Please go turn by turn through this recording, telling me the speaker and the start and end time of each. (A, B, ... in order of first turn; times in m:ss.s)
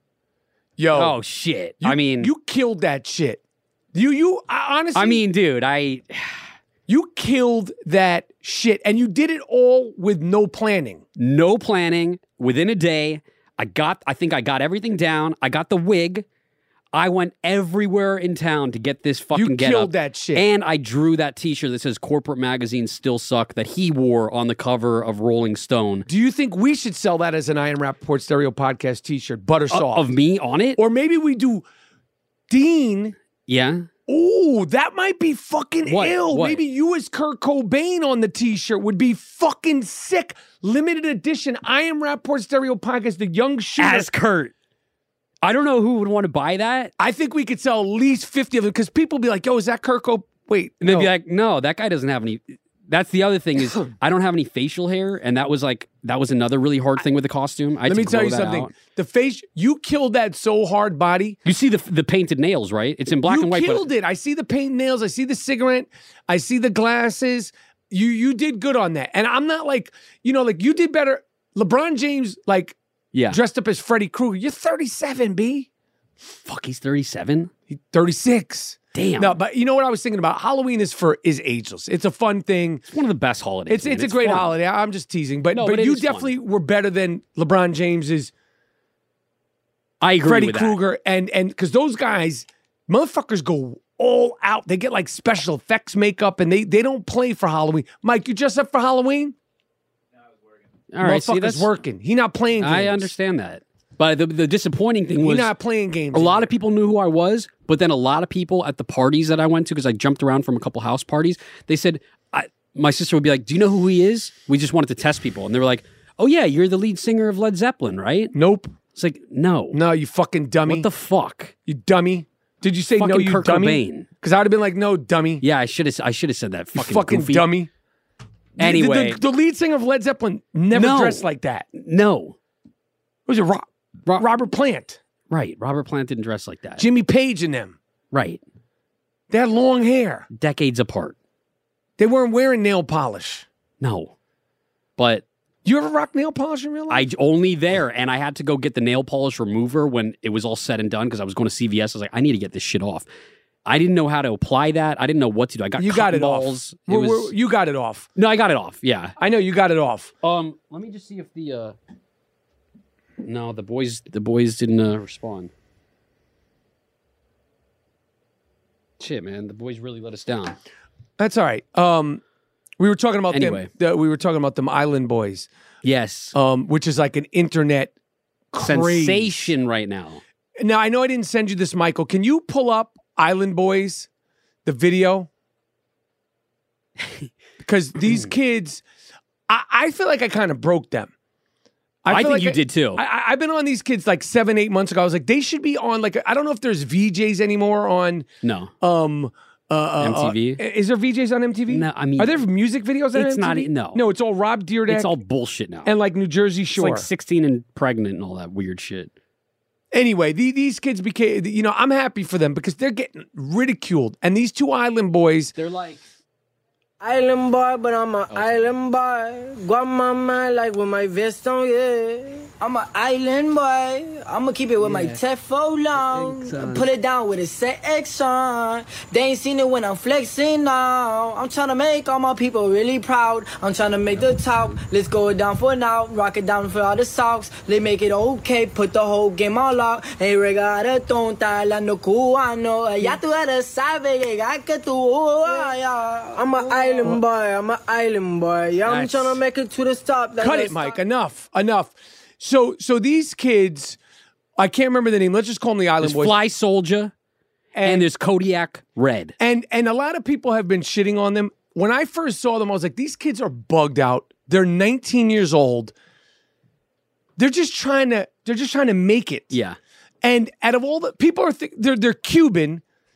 0:00.8-0:01.2 A
0:00.9-0:02.3 B
0:01.8-0:03.4 A
0:03.9-0:05.2 A
0:05.0-0:06.5 B
0:06.9-0:11.0 A
0:11.2-0:16.2 B
0:16.9-0:26.1 B
0:19.3-0:20.4 A
0:26.1-0:30.1 A
0:29.7-0:30.8 B
0:30.8-0:31.6 A
0:32.5-0:33.2 A
0:33.5-0:33.9 B
0:34.1-0:44.1 A
0:35.9-0:36.6 B
0:43.8-0:44.5 B
0:45.4-0:46.9 B
0:47.0-0:51.1 A
0:50.8-0:58.7 B
0:57.8-1:01.4 A
1:01.5-1:03.9 B
1:03.3-1:12.8 A
1:13.1-1:13.4 B
1:13.3-1:15.7 A
1:16.3-1:17.5 B
1:17.7-1:22.8 A
1:18.9-1:19.4 B
1:22.9-1:24.5 B
1:23.7-1:28.3 A
1:25.6-1:26.3 B
1:30.0-1:30.8 B
1:30.2-1:39.4 A
1:40.9-1:41.7 B
1:41.0-1:43.1 A
1:42.6-1:45.5 B
1:45.2-1:46.5 A
1:46.1-1:58.3 B
1:58.3-1:58.7 A
1:59.0-1:59.8 B
1:59.7-2:00.9 A
2:00.7-2:01.5 B
2:01.7-2:05.4 A
2:03.0-2:04.1 B
2:05.4-2:07.5 B
2:06.8-2:07.7 A
2:08.6-2:09.2 B
2:08.6-2:11.7 A
2:10.7-2:12.4 B
2:13.3-2:15.0 A
2:15.3-2:16.9 B
2:16.8-2:17.8 A
2:18.1-2:18.4 B
2:19.3-2:20.3 A
2:20.3-2:21.2 B
2:22.0-2:23.5 A
2:23.8-2:24.1 B
2:25.0-2:25.2 B
2:25.6-2:27.0 A
2:26.9-2:33.1 B
2:33.7-2:37.3 B
2:35.8-2:38.1 A
2:38.2-2:39.2 B
2:39.2-2:40.1 A
2:40.2-2:41.8 B
2:43.2-2:45.5 B
2:49.0-2:50.6 B
2:51.2-2:52.2 A
2:52.8-2:55.5 A
2:53.3-2:53.7 B
2:55.8-2:56.4 B
2:56.3-2:57.9 A
2:58.5-2:59.5 A
2:58.6-3:00.2 B
3:00.6-3:04.1 A
3:04.6-3:05.3 A
3:07.6-3:08.8 A
3:08.0-3:08.3 B
3:09.5-3:11.1 A
3:12.0-3:18.3 A
3:12.1-3:13.0 B
3:18.4-3:18.7 B
3:18.8-3:25.1 A
3:20.0-3:20.6 B
3:21.7-3:22.4 B
3:23.1-3:24.0 B
3:24.9-3:25.9 B
3:25.8-3:27.1 A
3:26.8-3:29.1 B
3:29.9-3:35.6 A
3:35.6-3:36.0 B
3:37.0-4:11.0 C
3:44.8-3:45.2 B
3:46.0-3:46.9 B
4:08.9-4:09.4 A
4:10.4-4:14.0 A
4:14.6-4:16.4 A
4:16.0-4:17.1 B
4:17.8-4:18.1 A
4:17.8-4:19.4 B
4:19.4-4:25.9 A
4:27.4-4:29.5 A
4:29.5-4:29.8 B
4:30.2-4:32.8 A